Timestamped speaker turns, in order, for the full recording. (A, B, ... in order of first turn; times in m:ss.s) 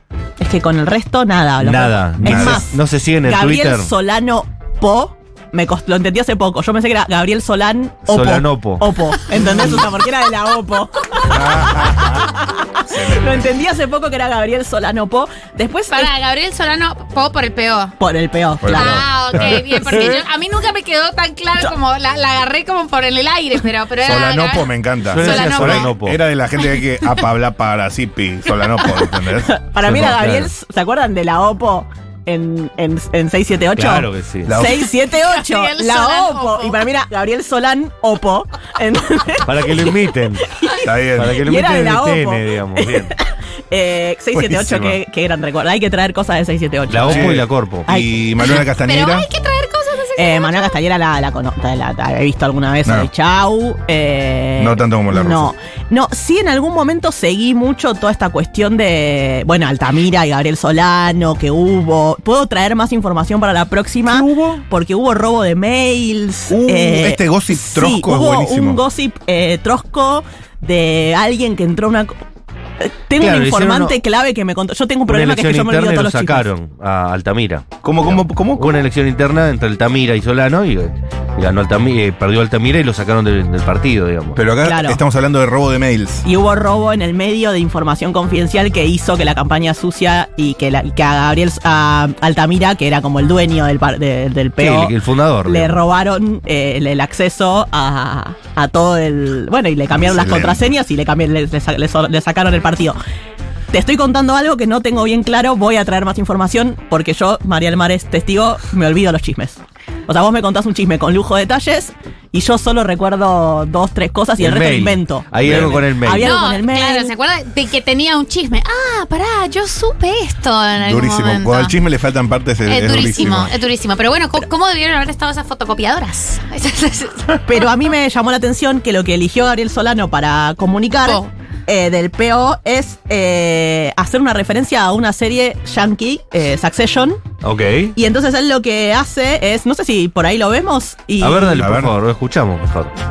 0:00.4-0:16.1 A
0:01.6-0:03.9 B
0:02.2-0:02.6 C
0:08.1-0:09.0 B
0:11.2-0:13.5 C
0:15.9-0:18.0 D
0:18.0-0:19.6 A
0:18.6-0:20.2 C
0:18.7-0:25.9 D
0:24.0-0:29.5 C
0:25.1-0:26.2 B
0:29.4-0:39.9 A
0:29.8-0:30.5 B
0:33.7-0:34.6 B
0:34.4-0:34.9 C
0:35.0-0:36.8 D
0:39.4-0:40.5 B
0:40.6-0:48.1 A
0:40.8-0:41.4 C
0:41.1-0:43.1 B
0:44.3-0:45.0 C
0:46.9-0:47.9 B
0:47.0-0:49.3 C
0:48.6-0:50.8 D
0:50.2-1:12.2 A
0:54.6-0:55.5 C
1:04.0-1:04.6 C
1:06.5-1:08.8 C
1:12.8-1:16.4 A
1:13.2-1:14.0 B
1:15.1-1:24.4 B
1:17.8-1:18.8 C
1:24.3-1:26.2 C
1:24.6-1:25.0 A
1:26.2-1:34.9 A
1:34.6-1:35.8 B
1:35.4-1:43.0 A
1:39.9-1:40.7 C
1:43.7-1:57.1 A
1:54.4-1:56.3 B
1:55.4-1:55.8 C
1:56.2-2:01.7 D
2:00.8-2:03.5 C
2:02.6-2:07.6 D
2:07.4-2:17.2 A
2:11.0-2:11.3 D
2:17.4-2:18.0 B
2:18.0-2:21.6 A
2:21.2-2:22.9 B
2:21.6-2:21.9 C